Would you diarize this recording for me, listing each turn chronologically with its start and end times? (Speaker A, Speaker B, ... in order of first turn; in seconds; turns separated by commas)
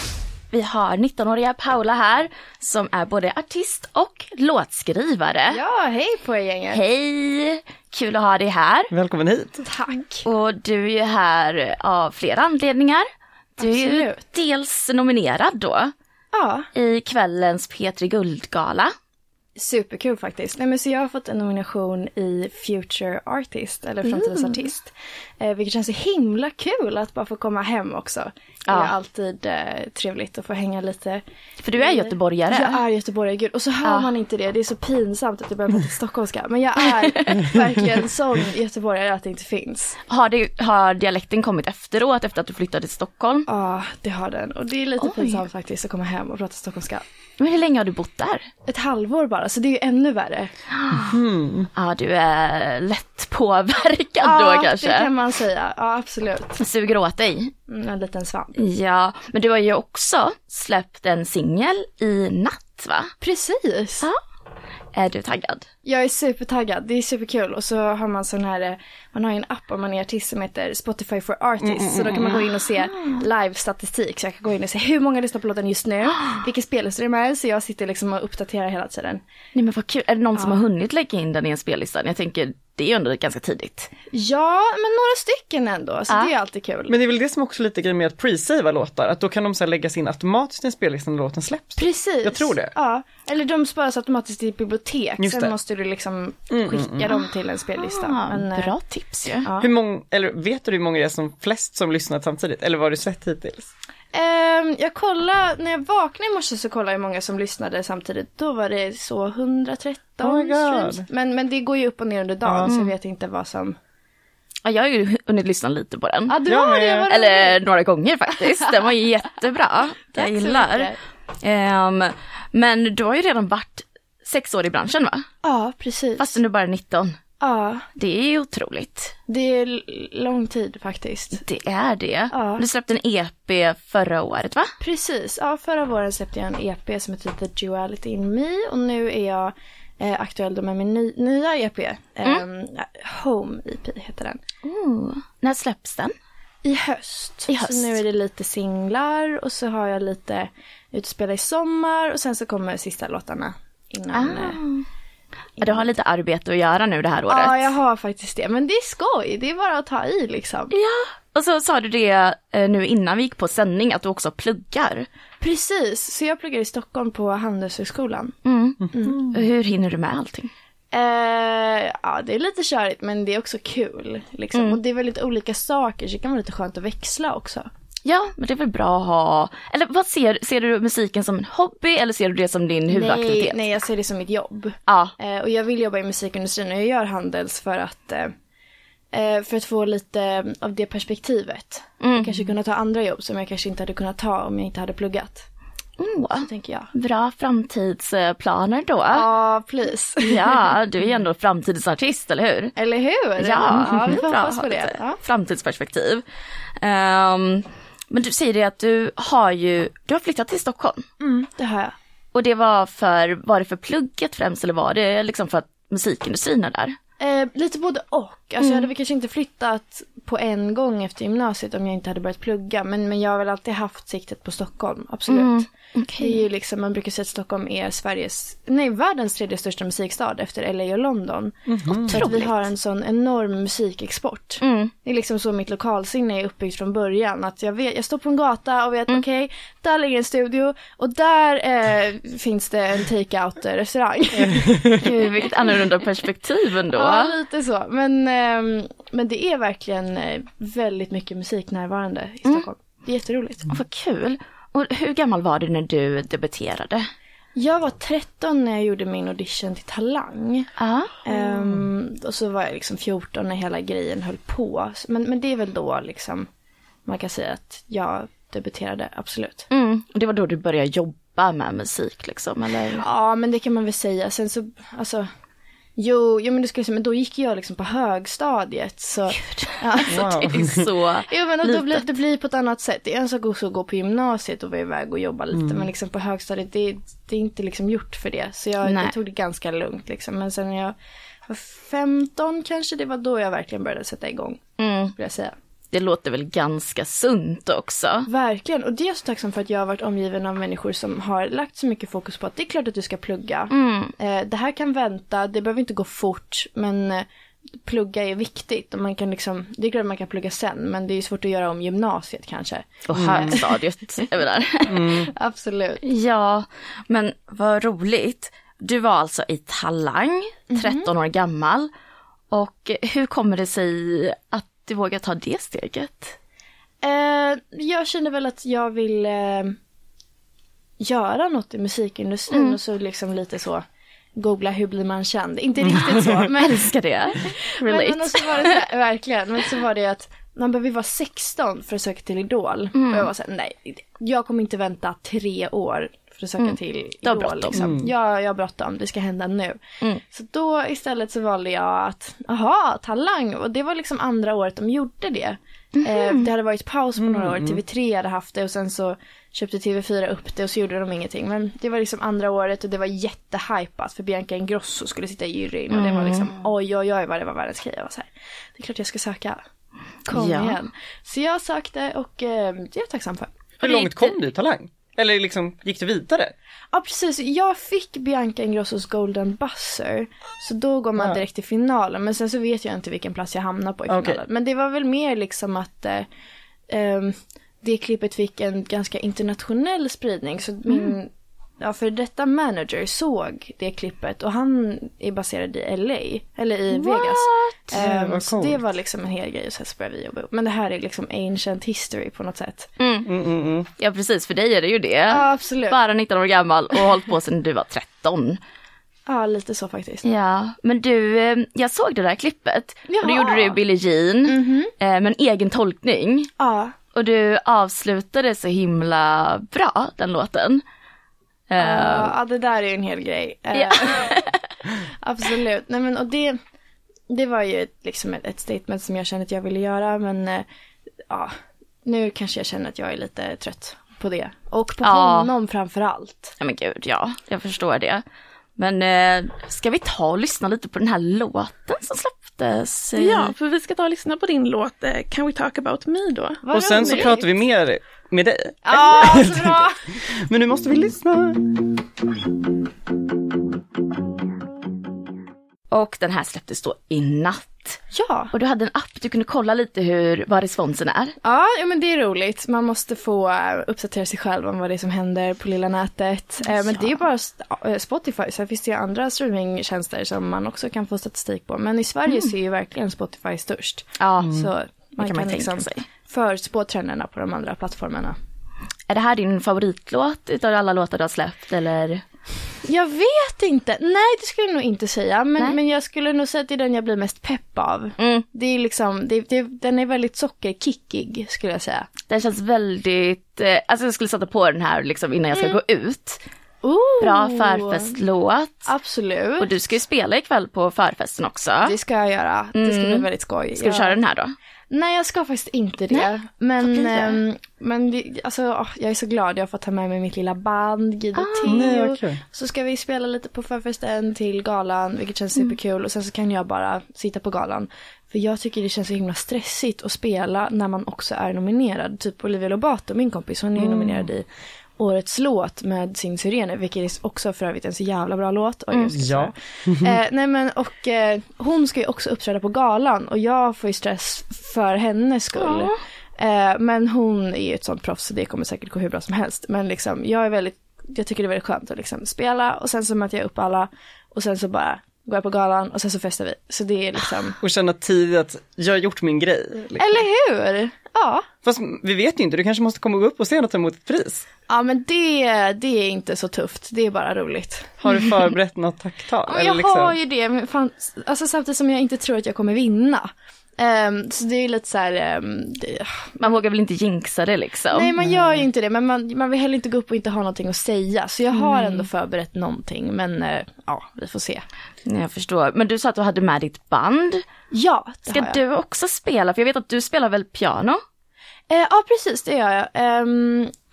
Speaker A: 0.5-5.6, Speaker B: 5.5-6.8, Speaker A: 6.7-8.9, Speaker C: 8.9-9.7, Speaker B: 9.6-10.2, Speaker A: 10.2-13.0, Speaker A: 13.6-15.9, Speaker B: 13.6-14.2, Speaker B: 16.3-16.7, Speaker A: 16.7-18.9, Speaker B: 19.6-40.0, Speaker A: 24.0-24.7, Speaker A: 28.7-28.9, Speaker A: 31.6-32.8, Speaker A: 33.8-34.1, Speaker A: 37.3-37.5, Speaker A: 40.1-43.5, Speaker B: 43.5-47.0, Speaker A: 45.0-45.4, Speaker A: 47.4-48.5, Speaker B: 48.6-50.5, Speaker A: 50.8-51.1, Speaker C: 51.0-51.7, Speaker A: 51.7-55.1, Speaker B: 54.2-56.6, Speaker A: 56.5-57.5, Speaker B: 57.7-58.6, Speaker A: 58.5-63.1, Speaker B: 63.2-64.1, Speaker A: 64.9-65.7, Speaker B: 65.8-79.2, Speaker C: 71.6-72.4, Speaker A: 72.8-73.2, Speaker A: 76.1-76.4, Speaker A: 79.5-83.9, Speaker B: 80.3-80.6, Speaker B: 84.1-87.0, Speaker C: 86.9-92.7, Speaker B: 91.8-98.7, Speaker C: 95.2-95.5, Speaker C: 96.5-97.1, Speaker A: 97.8-99.5, Speaker B: 99.4-99.7, Speaker C: 99.6-103.7, Speaker B: 104.1-113.8, Speaker C: 110.2-111.0, Speaker C: 112.5-112.7, Speaker A: 112.6-112.9, Speaker A: 114.6-116.4, Speaker B: 116.3-117.6, Speaker C: 116.5-117.1, Speaker A: 117.1-125.2, Speaker B: 120.2-121.0, Speaker B: 125.4-126.4, Speaker A: 126.2-127.2, Speaker B: 127.4-127.8, Speaker A: 128.0-129.1, Speaker B: 129.3-131.4, Speaker A: 131.3-134.7, Speaker B: 132.3-132.6, Speaker B: 134.8-144.4, Speaker A: 144.6-146.1, Speaker B: 146.6-154.6, Speaker A: 147.5-148.0, Speaker A: 154.1-154.8, Speaker A: 155.6-157.7, Speaker B: 155.6-155.9, Speaker B: 157.2-160.7, Speaker A: 160.7-165.1, Speaker B: 165.4-168.3, Speaker A: 168.4-170.5, Speaker B: 170.9-177.7, Speaker A: 174.5-174.8, Speaker A: 178.0-183.6, Speaker B: 182.9-188.3, Speaker A: 184.9-185.1, Speaker B: 189.1-195.4, Speaker A: 192.0-192.5, Speaker A: 196.0-199.3, Speaker B: 196.3-196.9, Speaker B: 199.1-200.7, Speaker A: 200.2-202.7, Speaker B: 202.7-205.2, Speaker A: 203.4-206.2, Speaker A: 206.8-211.0, Speaker B: 211.2-211.9, Speaker A: 212.3-216.9, Speaker B: 217.2-225.7, Speaker A: 218.6-218.9, Speaker A: 225.3-226.4, Speaker B: 226.2-245.0, Speaker C: 231.7-232.2, Speaker A: 232.1-232.6, Speaker A: 234.6-234.9, Speaker A: 244.9-247.3, Speaker B: 246.9-253.7, Speaker A: 253.7-257.0, Speaker B: 257.5-260.7, Speaker A: 260.8-261.1, Speaker B: 261.2-266.5, Speaker B: 267.1-269.7, Speaker A: 269.7-273.0, Speaker B: 272.9-275.2, Speaker B: 275.9-280.6, Speaker A: 279.3-282.1, Speaker C: 280.1-280.9, Speaker B: 281.3-290.9, Speaker C: 285.6-285.8, Speaker A: 288.8-289.1, Speaker B: 291.5-294.6, Speaker A: 294.8-295.1, Speaker B: 295.1-295.5, Speaker A: 295.9-298.3, Speaker B: 298.2-307.2, Speaker A: 303.7-304.1, Speaker B: 307.8-313.7, Speaker A: 313.0-315.1, Speaker C: 313.1-313.6, Speaker C: 314.9-315.3, Speaker B: 315.1-316.0, Speaker A: 316.0-321.9, Speaker B: 320.7-321.1, Speaker A: 322.5-326.4, Speaker B: 327.0-329.7, Speaker B: 331.0-333.8, Speaker A: 332.5-332.8, Speaker B: 334.3-369.6, Speaker A: 335.8-338.8, Speaker A: 342.9-343.3, Speaker A: 346.6-347.8, Speaker C: 347.7-348.1, Speaker A: 356.0-356.5, Speaker C: 357.2-357.8, Speaker A: 365.9-366.5, Speaker B: 370.3-374.1, Speaker A: 370.3-370.8, Speaker C: 373.8-376.5, Speaker B: 376.9-386.2, Speaker C: 384.1-384.4, Speaker B: 386.9-402.9, Speaker A: 390.9-391.1, Speaker A: 396.9-397.8, Speaker C: 397.9-398.8, Speaker A: 403.0-403.3, Speaker C: 403.2-403.9, Speaker A: 404.0-408.6, Speaker B: 405.3-406.0, Speaker B: 409.2-410.3, Speaker A: 410.2-416.5, Speaker B: 413.1-413.8, Speaker B: 414.4-414.9, Speaker B: 416.6-416.9, Speaker A: 417.1-420.8, Speaker A: 421.7-422.3, Speaker B: 421.8-424.4, Speaker A: 423.8-424.6, Speaker B: 425.2-426.6, Speaker B: 427.3-430.6, Speaker B: 432.0-436.5, Speaker A: 435.0-435.5, Speaker A: 436.6-438.2, Speaker A: 438.8-443.5, Speaker D: 443.1-446.6, Speaker B: 446.6-447.5, Speaker C: 446.7-451.8, Speaker B: 448.9-449.9, Speaker A: 455.9-458.0, Speaker B: 458.1-458.5, Speaker A: 458.5-461.3, Speaker B: 461.4-478.4, Speaker A: 466.6-467.2, Speaker A: 474.2-474.7, Speaker A: 475.2-476.1, Speaker A: 479.1-482.2, Speaker B: 482.8-492.1, Speaker A: 488.2-488.4, Speaker A: 492.3-496.4, Speaker B: 495.5-495.8, Speaker B: 496.8-498.1, Speaker A: 497.2-498.9, Speaker B: 498.9-499.7, Speaker A: 499.6-501.9, Speaker B: 501.8-504.2, Speaker A: 502.7-504.5, Speaker B: 504.9-524.5, Speaker A: 506.8-507.4, Speaker A: 511.3-511.8, Speaker C: 511.7-512.4, Speaker C: 523.8-524.3, Speaker B: 525.0-547.6, Speaker C: 529.1-530.2, Speaker A: 535.5-536.0, Speaker C: 547.6-550.2, Speaker B: 550.0-551.5, Speaker C: 551.6-554.5, Speaker B: 554.7-558.1, Speaker C: 558.0-560.2, Speaker B: 559.5-563.2, Speaker B: 563.8-566.6, Speaker A: 566.4-568.1, Speaker B: 567.9-574.6, Speaker A: 571.5-572.1, Speaker A: 575.0-577.4, Speaker B: 577.7-578.6, Speaker A: 578.3-581.0, Speaker B: 581.7-583.7